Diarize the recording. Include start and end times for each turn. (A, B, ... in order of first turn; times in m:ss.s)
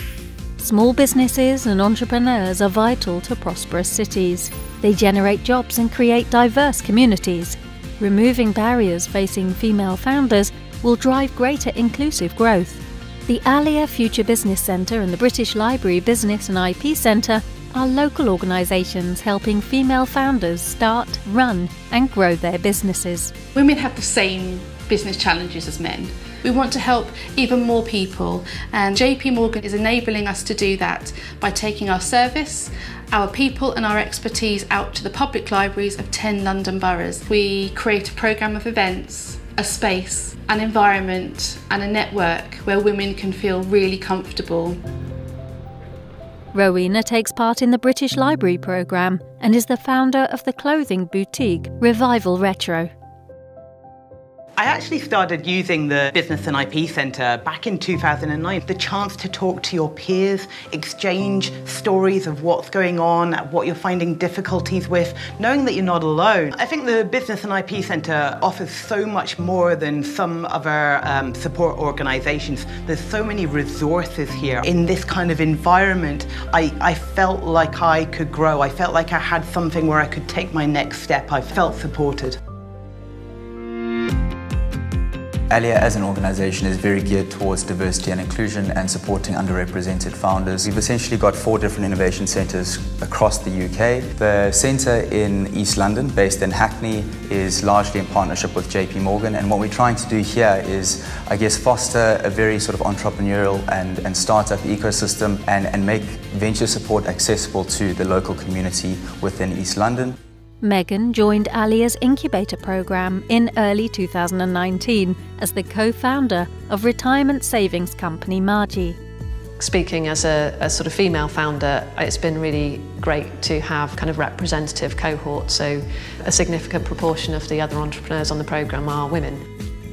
0:00.6-0:23.3 A
0:23.6-0:44.8 B
0:46.5-0:52.9 A
0:54.6-1:22.4 C
1:25.5-1:50.2 D
1:50.6-1:59.0 A
1:59.6-2:09.4 E